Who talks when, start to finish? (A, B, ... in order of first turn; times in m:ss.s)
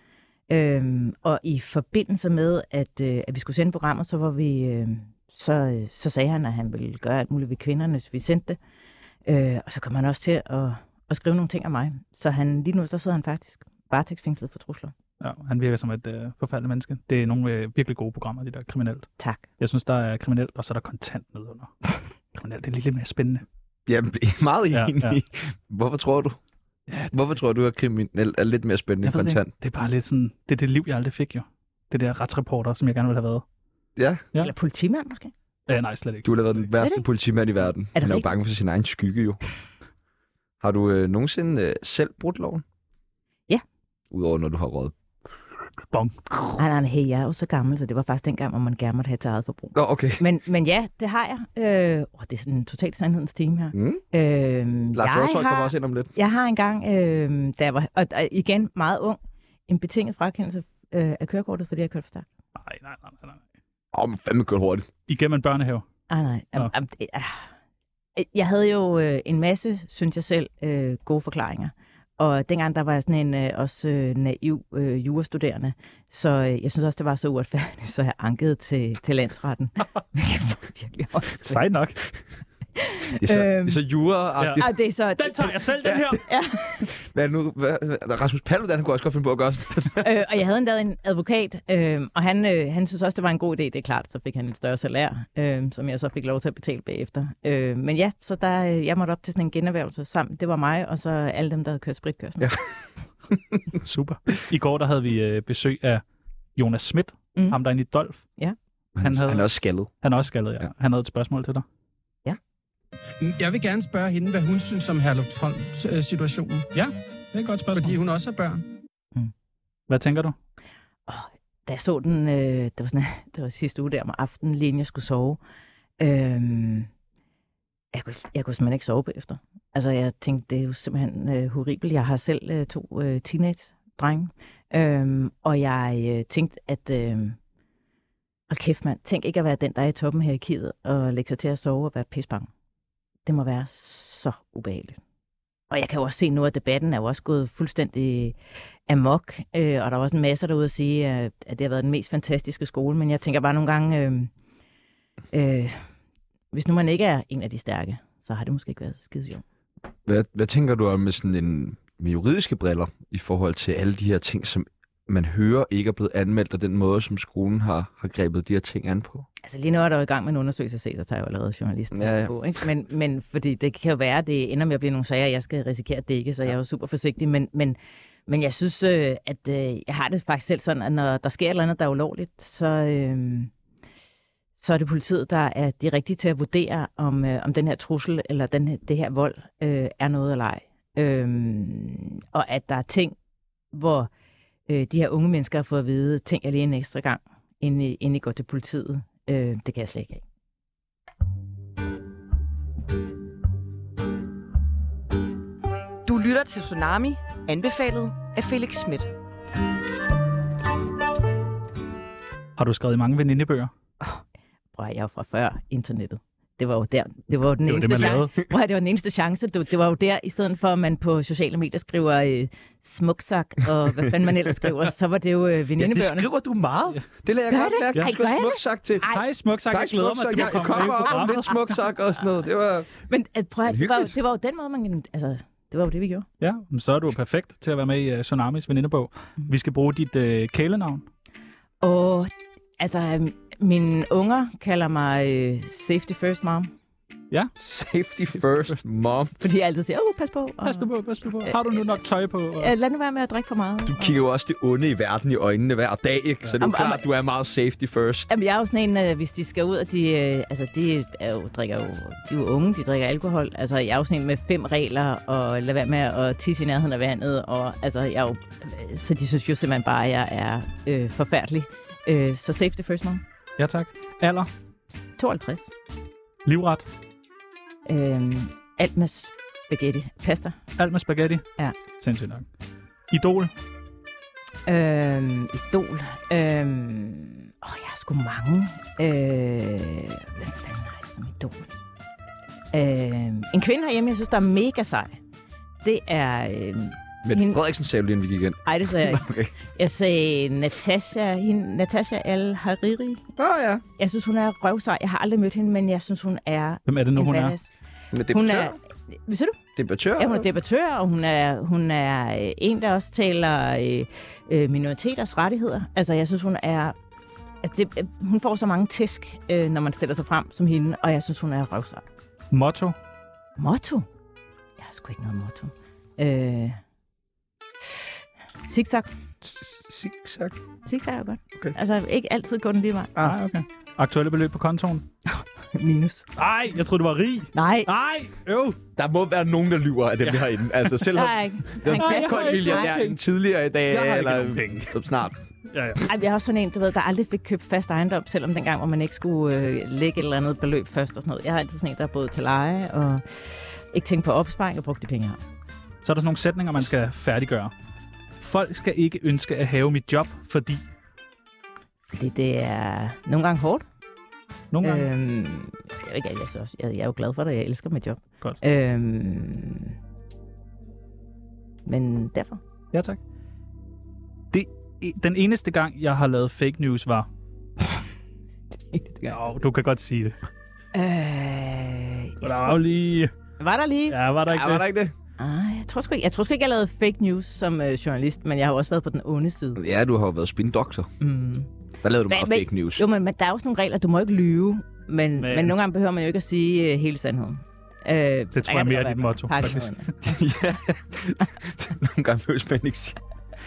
0:00.5-0:08.6 A
0:09.2-0:14.9 A
0:15.2-0:19.1 B
0:19.2-0:19.5 A
0:19.6-0:23.4 B
0:23.9-0:26.4 C
0:24.7-0:25.2 B
0:27.1-0:29.5 C
0:29.0-0:33.4 B
0:34.0-0:34.2 C
0:34.4-0:35.3 A
0:35.7-0:36.4 B
0:36.2-0:39.4 C
0:36.8-0:37.0 A
0:37.9-0:38.3 A
0:40.6-0:42.6 C
0:44.1-0:45.0 C
0:45.9-0:46.4 B
0:46.6-1:02.3 A
0:49.8-0:50.2 C
0:53.7-0:54.0 C
0:55.0-0:56.1 C
1:02.6-1:03.4 B
1:03.9-1:04.9 C
1:05.1-1:05.8 B
1:06.1-1:07.5 A
1:08.2-1:21.6 A
1:21.4-1:22.0 B
1:22.8-1:23.8 A
1:23.2-1:24.7 C
1:24.4-1:26.2 B
1:24.6-1:26.9 A
1:26.9-1:30.1 C
1:30.0-1:42.6 A
1:43.8-1:46.0 B
1:46.6-1:48.2 B
1:49.0-1:49.9 C
1:49.0-1:49.5 B
1:50.0-1:51.6 B
1:53.2-1:56.7 D
1:56.7-1:57.9 B
1:57.7-1:58.6 D
1:59.9-2:00.4 B
2:01.1-2:05.4 A
2:06.0-2:06.9 A
2:07.9-2:17.4 A
2:18.5-2:22.5 A
2:23.2-2:25.0 A
2:25.7-2:28.4 A
2:28.9-2:34.3 A
2:35.3-2:35.8 A
2:36.5-2:39.4 A
2:40.1-2:49.3 C
2:49.4-3:03.5 A
2:51.9-2:52.3 C
3:04.6-3:13.2 A
3:13.7-3:14.1 A
3:14.7-3:20.2 A
3:26.0-3:29.1 E
3:32.6-3:33.7 B
3:34.8-3:46.3 A
3:37.7-3:38.3 B
3:45.8-3:49.1 C
3:47.5-3:49.2 A
3:49.1-3:51.8 B
3:49.7-3:52.9 C
3:53.1-3:56.3 A
3:53.7-3:54.1 C
3:56.4-4:01.1 B
4:01.8-4:06.7 A
4:07.6-4:09.4 C
4:09.4-4:10.9 A
4:10.6-4:12.7 B
4:11.4-4:11.8 A
4:12.6-4:14.2 A
4:13.9-4:18.3 C
4:16.6-4:17.0 A
4:18.3-4:33.2 A
4:33.6-4:34.5 B
4:35.2-4:35.7 A
4:36.4-4:36.9 B
4:37.9-4:40.6 A
4:40.8-4:41.5 B
4:42.0-4:42.5 B
4:43.1-4:43.5 B
4:44.7-4:51.7 A
4:52.7-4:55.2 A
4:55.8-4:57.6 A
4:57.2-4:59.5 C
4:58.7-5:03.2 A
5:03.4-5:03.8 C
5:04.0-5:07.7 A
5:06.9-5:07.5 B
5:08.1-5:08.8 C
5:08.3-5:09.6 A
5:09.8-5:10.5 C
5:10.2-5:17.0 A
5:17.6-5:22.0 A
5:22.5-5:23.0 B
5:23.6-5:24.1 A
5:24.8-5:26.8 A
5:28.7-5:29.1 A
5:29.4-5:30.6 C
5:30.9-5:33.1 A
5:33.2-5:35.1 B
5:35.3-5:36.3 A
5:36.4-5:38.8 B
5:37.5-5:37.9 A
5:39.0-5:45.4 C
5:41.1-5:43.0 A
5:42.0-5:43.2 B
5:43.9-5:45.0 B
5:45.7-5:46.0 B
5:46.0-5:55.4 A
5:56.0-5:57.7 B
5:58.4-6:00.8 B
6:02.1-6:03.8 A
6:04.7-6:05.1 B
6:04.8-6:10.0 A
6:11.9-6:12.6 A
6:12.9-6:13.2 B
6:14.5-6:17.3 B
6:18.9-6:19.4 A
6:19.3-6:20.4 B
6:20.9-6:22.8 A
6:22.4-6:23.3 B
6:23.6-6:24.2 A
6:24.1-6:24.8 B
6:24.5-6:25.1 C
6:25.4-6:29.8 A
6:29.8-6:31.1 C
6:31.2-6:31.7 A
6:32.0-6:33.0 C
6:32.3-6:40.3 A
6:35.4-6:35.8 B
6:38.6-6:39.9 B
6:40.2-6:43.2 C